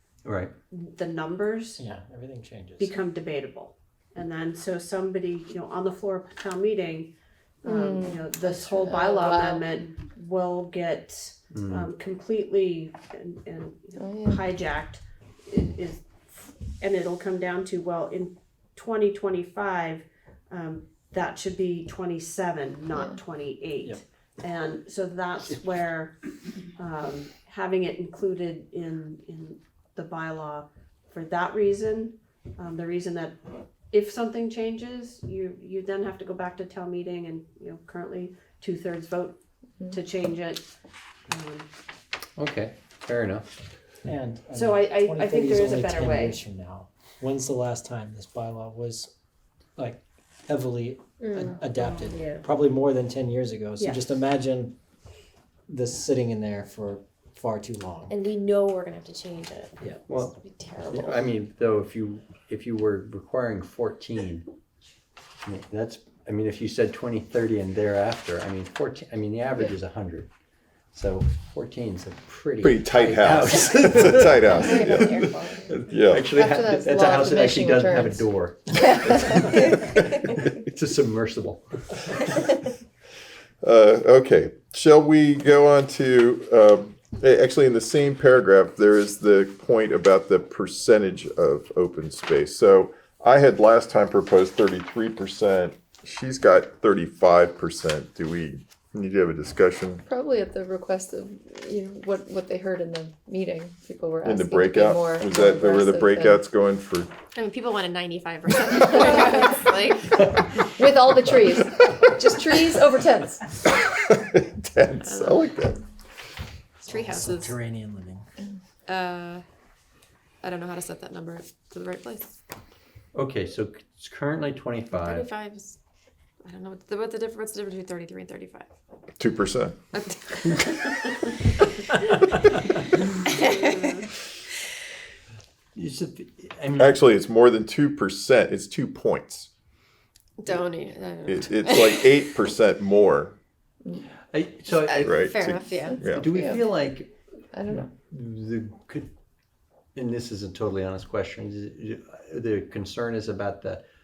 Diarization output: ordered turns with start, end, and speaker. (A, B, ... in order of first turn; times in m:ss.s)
0:00.2-0:00.5 A
0:00.7-0:01.8 B
0:01.8-0:03.0 C
0:02.8-0:26.2 B
0:07.6-0:09.6 D
0:11.5-0:11.9 A
0:14.0-0:14.4 D
0:26.7-0:33.4 B
0:33.9-0:40.6 B
0:41.3-0:41.7 B
0:42.4-0:43.5 A
0:44.0-0:49.1 C
0:44.5-0:46.4 B
0:49.8-0:54.8 C
0:51.5-0:52.2 B
0:52.1-0:52.4 E
0:55.7-0:58.2 C
0:58.1-1:01.3 E
1:00.1-1:04.5 A
1:05.4-1:10.3 A
1:10.9-1:22.2 A
1:12.6-1:15.2 F
1:14.4-1:15.8 E
1:15.8-1:16.3 F
1:16.2-1:18.3 D
1:23.6-1:40.0 F
1:40.0-1:46.4 D
1:44.2-1:47.1 F
1:47.3-1:50.3 E
1:48.8-1:49.5 D
1:50.6-1:53.4 D
1:53.6-1:55.8 F
1:54.9-1:55.4 E
1:56.8-1:57.5 E
1:56.9-1:58.2 C
1:58.9-1:59.4 E
2:00.4-2:02.4 E
2:03.1-2:05.4 A
2:04.9-2:05.8 E
2:06.4-2:08.7 E
2:09.2-2:09.8 F
2:09.9-2:11.9 E
2:13.2-2:13.8 E
2:13.3-2:14.1 B
2:15.7-2:17.0 A
2:16.8-2:19.5 F
2:20.4-2:22.2 E
2:21.3-2:23.4 F
2:24.3-2:27.1 A
2:24.7-2:26.0 E
2:25.0-2:26.3 F
2:25.8-2:26.7 D
2:27.5-2:27.8 D
2:27.7-2:29.1 A
2:29.9-2:33.8 A